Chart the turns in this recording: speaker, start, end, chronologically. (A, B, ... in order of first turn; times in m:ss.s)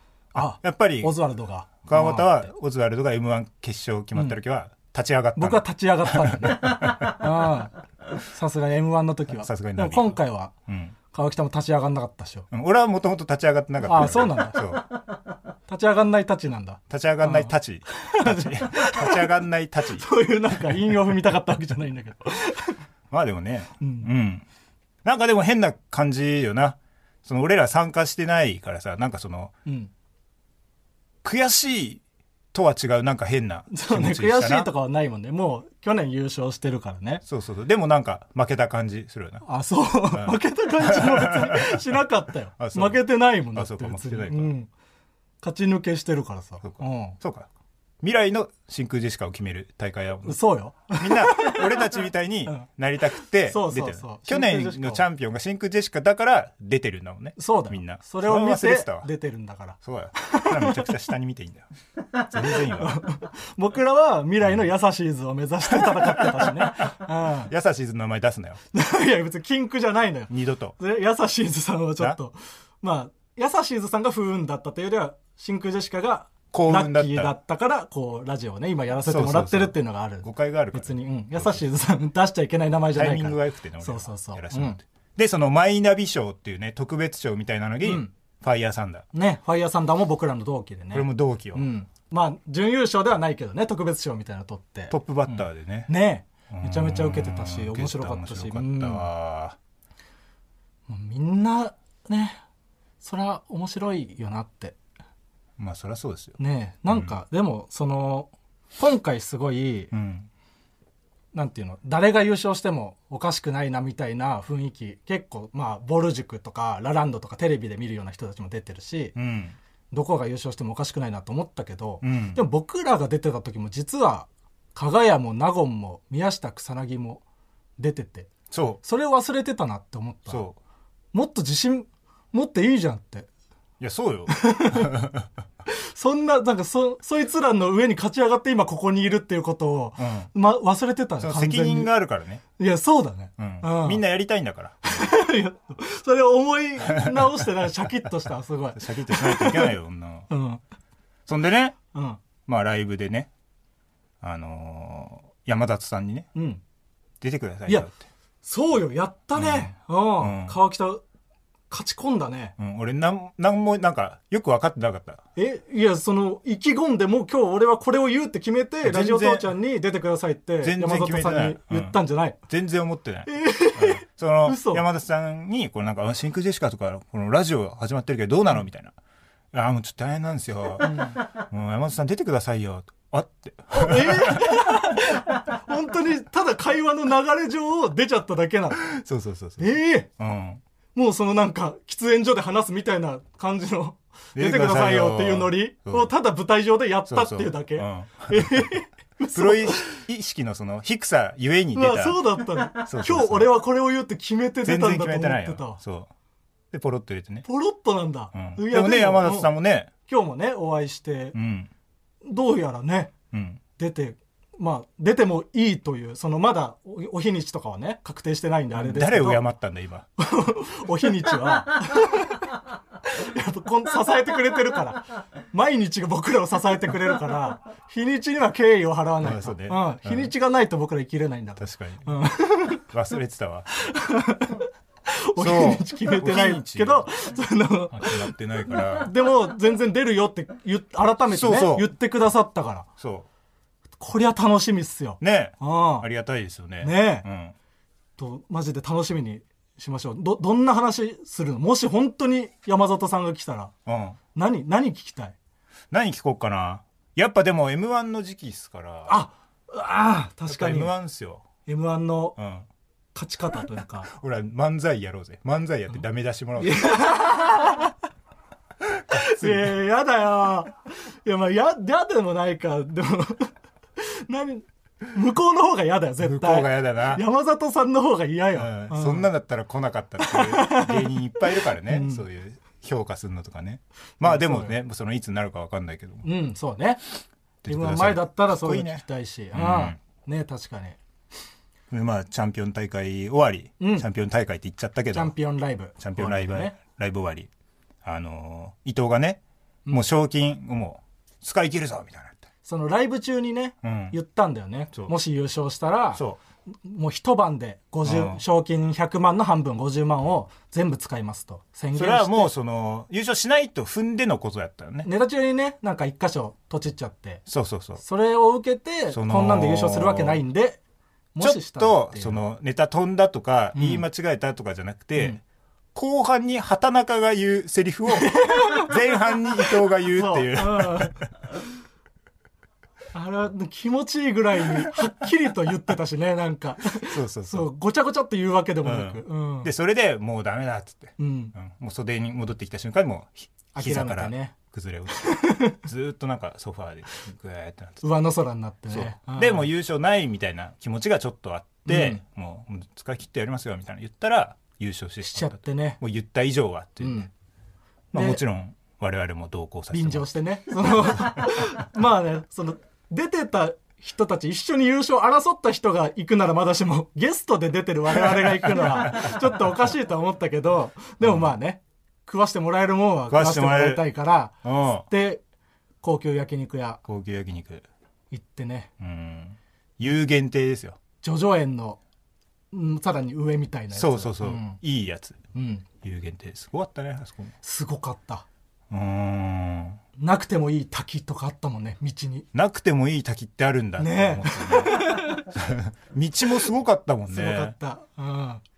0:00.3-0:01.1 A
0:00.3-0:02.5 B
0:01.8-0:07.2 A
0:05.4-0:10.5 B
0:09.3-0:10.9 A
0:11.1-0:12.5 B
0:12.5-0:14.8 A
0:13.8-0:14.8 B
0:15.7-0:19.3 B
0:16.9-0:20.1 A
0:20.0-0:22.8 B
0:23.1-0:24.4 A
0:23.8-0:24.1 B
0:25.0-0:29.5 A
0:29.6-0:29.9 B
0:31.2-0:32.0 A
0:32.5-0:34.7 A
0:33.7-0:37.2 B
0:37.2-0:39.4 A
0:39.4-0:44.7 B
0:40.1-0:42.0 A
0:42.6-0:44.5 A
0:45.4-0:47.2 B
0:46.6-0:47.5 A
0:48.0-0:50.4 A
0:50.2-0:51.9 B
0:50.9-0:59.1 A
0:53.5-0:55.0 B
0:57.4-1:00.9 B
0:59.8-1:01.7 A
1:02.3-1:03.0 A
1:02.5-1:07.5 B
1:05.7-1:06.9 A
1:07.5-1:08.6 A
1:08.7-1:24.8 B
1:10.3-1:10.7 A
1:16.5-1:17.3 A
1:19.1-1:21.6 A
1:22.9-1:29.0 A
1:27.8-1:28.1 B
1:29.1-1:39.0 B
1:30.9-1:31.7 A
1:34.9-1:35.9 A
1:36.5-1:39.6 A
1:40.9-1:42.4 B
1:43.0-1:44.8 B
1:45.6-1:47.1 A
1:46.4-1:49.9 B
1:49.9-1:50.3 A
1:51.3-1:59.1 B
1:59.1-1:59.6 A
1:59.9-2:07.2 B
2:02.0-2:02.4 A
2:07.8-2:08.3 B
2:08.5-2:08.8 A
2:08.8-2:10.4 B
2:10.3-2:10.6 A
2:11.1-2:13.3 B
2:13.8-2:15.3 A
2:14.3-2:14.9 B
2:15.7-2:21.9 B
2:20.0-2:20.3 A
2:21.2-2:22.4 A
2:22.6-2:24.0 B
2:23.4-2:25.1 A
2:24.8-2:29.7 B
2:26.9-2:27.3 A
2:28.7-2:30.3 A
2:30.3-2:30.6 B
2:31.3-2:31.8 A
2:31.9-2:32.2 B
2:32.4-2:33.3 A
2:34.2-2:36.3 A
2:36.3-2:36.6 B
2:37.2-2:38.0 A
2:38.4-2:41.0 B
2:39.3-2:40.6 A
2:41.7-2:42.5 B
2:42.6-2:45.2 A
2:45.4-2:52.4 B
2:48.8-2:49.5 A
2:50.6-2:58.9 A
2:53.3-2:54.8 B
2:59.5-3:04.8 A
3:00.8-3:01.2 B
3:03.7-3:08.9 B
3:08.8-3:10.6 A
3:09.6-3:10.1 B
3:10.9-3:20.0 B
3:14.4-3:16.1 A
3:17.1-3:18.7 A
3:19.3-3:23.5 A
3:21.7-3:25.8 B
3:24.6-3:26.1 A
3:26.7-3:27.4 A
3:27.4-3:29.5 B
3:28.3-3:29.9 A
3:30.0-3:31.3 B
3:31.3-3:31.7 A
3:32.2-3:33.1 B
3:33.3-3:33.6 A
3:33.8-3:39.4 B
3:38.7-3:40.1 A
3:40.2-3:42.4 B
3:43.1-3:52.9 B
3:49.2-3:50.3 A
3:51.6-3:52.1 A
3:52.8-3:53.7 A
3:53.8-4:02.9 B
3:55.4-3:57.1 A
3:57.9-3:59.1 A
4:01.3-4:01.9 A
4:03.0-4:03.3 A
4:04.0-4:06.1 B
4:05.2-4:07.5 A
4:06.8-4:07.3 B
4:08.2-4:13.7 B
4:13.8-4:14.2 A
4:14.3-4:15.4 B
4:15.9-4:19.2 A
4:19.1-4:20.9 B
4:20.5-4:21.4 A
4:21.6-4:22.4 B
4:22.4-4:22.7 A
4:23.1-4:24.1 B
4:24.1-4:26.8 A
4:26.6-4:27.9 B
4:29.1-4:29.7 A
4:29.1-4:39.3 B
4:36.2-4:37.2 A
4:38.6-4:46.2 A
4:40.2-4:42.2 B
4:44.2-4:44.7 B
4:46.2-4:47.0 B
4:47.6-4:50.0 A
4:47.6-4:51.0 B
4:51.9-4:55.3 A
4:53.8-4:54.1 B
4:55.1-4:56.8 B
4:56.0-4:57.5 A
4:58.0-5:02.5 A
5:02.6-5:06.2 B
5:03.8-5:04.2 A
5:06.1-5:06.4 A
5:06.8-5:12.5 B
5:08.0-5:08.4 A
5:11.9-5:15.1 A
5:15.0-5:17.4 B
5:17.5-5:18.0 A
5:18.0-5:20.8 B
5:19.1-5:20.4 A
5:21.3-5:22.4 B
5:21.4-5:25.4 A
5:23.7-5:24.0 B
5:25.9-5:31.3 A
5:28.2-5:28.9 B
5:30.1-5:31.2 B
5:33.1-5:39.7 B
5:37.0-5:37.7 A
5:38.8-5:48.0 A
5:41.2-5:41.5 B
5:43.7-5:44.5 B
5:45.2-5:45.8 B
5:48.0-5:49.7 B
5:48.9-5:57.3 A
5:51.8-5:52.2 B
5:55.2-5:56.0 B
5:57.0-5:57.3 B
5:58.1-5:58.4 B
5:58.1-6:01.5 A
5:59.9-6:14.5 B
6:08.1-6:09.4 A
6:11.2-6:11.5 A
6:13.3-6:14.0 A
6:14.6-6:15.0 A
6:15.1-6:15.4 B
6:16.0-6:17.0 B
6:17.0-6:17.8 A
6:18.3-6:18.9 B
6:19.0-6:21.0 A
6:21.2-6:22.0 B
6:22.7-6:24.8 B
6:23.9-6:25.4 A
6:25.5-6:25.8 B
6:26.0-6:27.5 A
6:27.6-6:28.4 B
6:28.9-6:30.0 A
6:30.2-6:32.5 B
6:32.5-6:37.7 A
6:34.0-6:35.5 B
6:37.3-6:38.6 B